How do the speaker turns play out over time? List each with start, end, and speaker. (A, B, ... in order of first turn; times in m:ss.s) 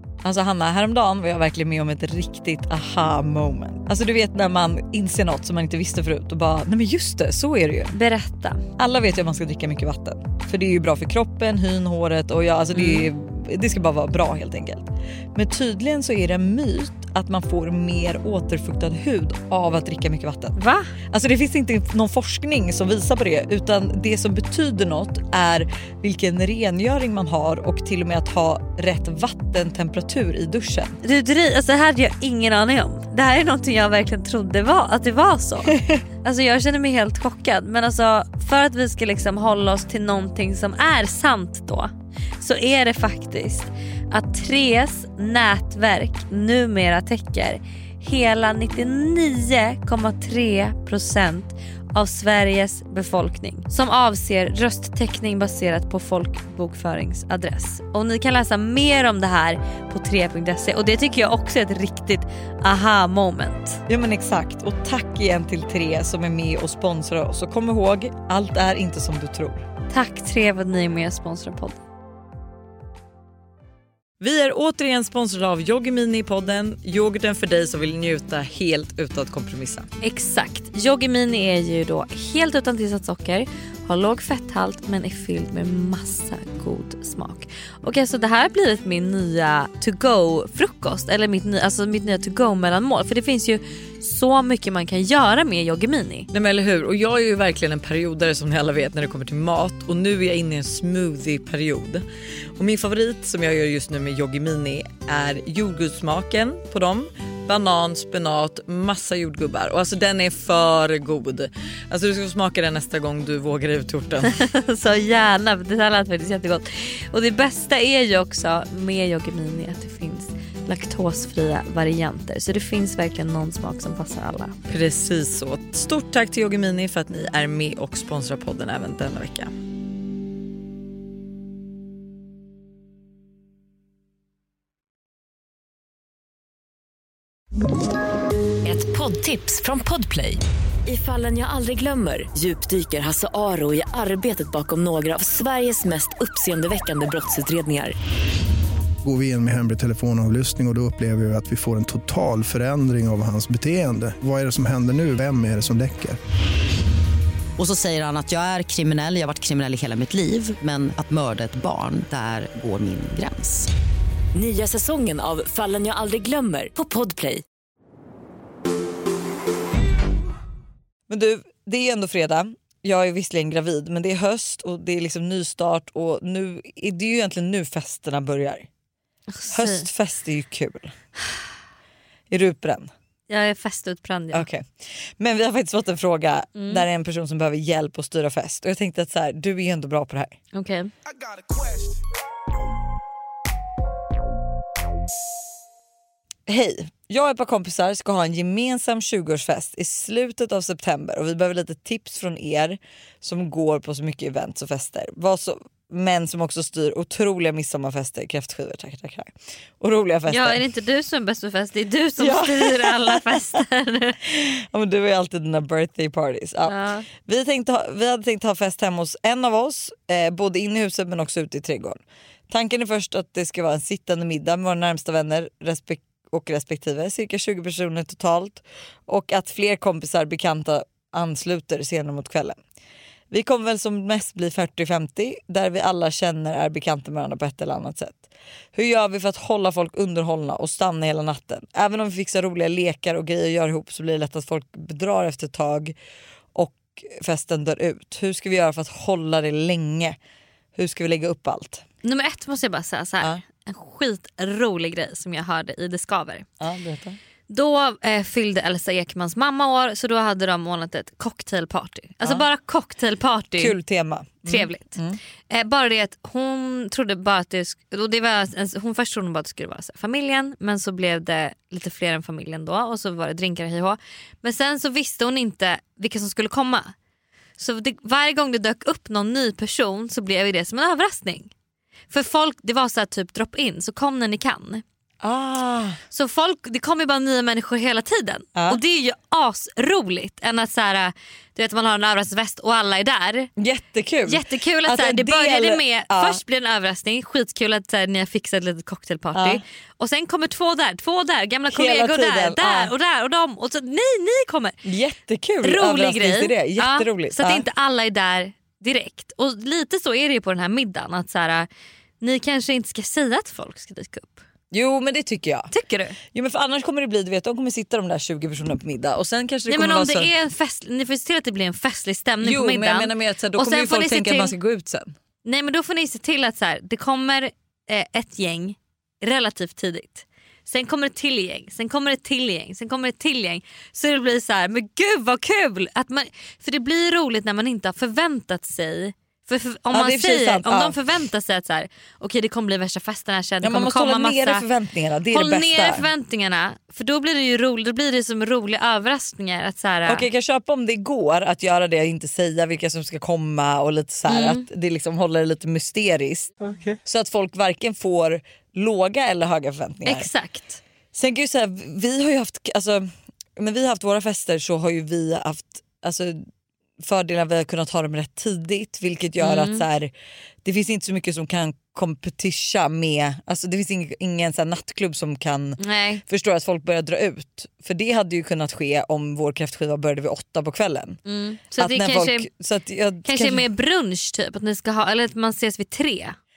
0:00.2-0:07.9 A
0:07.9-0:08.6 B
0:08.8-0:20.6 A
0:12.7-0:13.1 B
0:20.6-0:20.9 B
0:21.1-0:31.0 A
0:31.0-1:03.8 B
0:35.8-0:36.0 A
1:03.9-1:09.6 A
1:09.9-1:11.8 B
1:14.2-1:19.9 A
1:20.0-1:36.3 B
1:36.3-1:54.4 A
1:54.2-2:04.6 B
2:04.7-2:09.5 A
2:18.6-2:28.0 C
2:29.0-2:36.2 D
2:37.6-2:43.7 E
2:44.3-2:47.4 C
2:51.1-2:58.7 A
2:59.3-2:59.9 B
2:59.5-3:00.9 A
3:02.3-3:02.9 A
3:03.3-3:04.5 B
3:04.3-3:10.4 A
3:06.6-3:06.8 B
3:10.5-3:10.9 B
3:16.5-3:30.6 A
3:30.3-3:34.2 B
3:32.2-3:33.6 A
3:34.2-3:52.6 A
3:36.7-3:37.1 B
3:53.3-4:06.0 A
4:06.5-4:10.2 A
4:10.8-4:11.8 A
4:12.0-4:16.5 B
4:16.6-4:17.2 A
4:17.5-4:23.8 B
4:23.6-4:25.2 A
4:24.5-4:25.0 B
4:25.5-4:36.9 B
4:37.6-4:41.5 B
4:42.1-4:44.8 B
4:45.2-4:46.0 A
4:46.1-4:53.5 B
4:48.6-4:48.8 A
4:53.6-4:56.4 A
4:54.3-5:04.8 B
4:59.3-4:59.6 A
5:01.7-5:02.9 A
5:04.8-5:07.7 A
5:05.6-5:11.7 B
5:12.2-5:14.4 B
5:14.7-5:15.7 A
5:15.7-5:16.2 B
5:16.3-5:20.3 A
5:19.7-5:24.6 B
5:22.4-5:25.2 A
5:25.4-5:44.7 B
5:39.9-5:41.0 A
5:43.6-5:46.1 A
5:45.3-5:50.3 B
5:50.1-6:00.3 A
5:54.3-5:54.6 B
6:00.0-6:00.8 B
6:01.1-6:06.4 A
6:07.0-6:10.1 A
6:09.4-6:09.9 B
6:10.6-6:21.2 A
6:15.8-6:16.2 B
6:21.3-6:22.5 B
6:21.8-6:23.6 A
6:23.3-6:26.4 B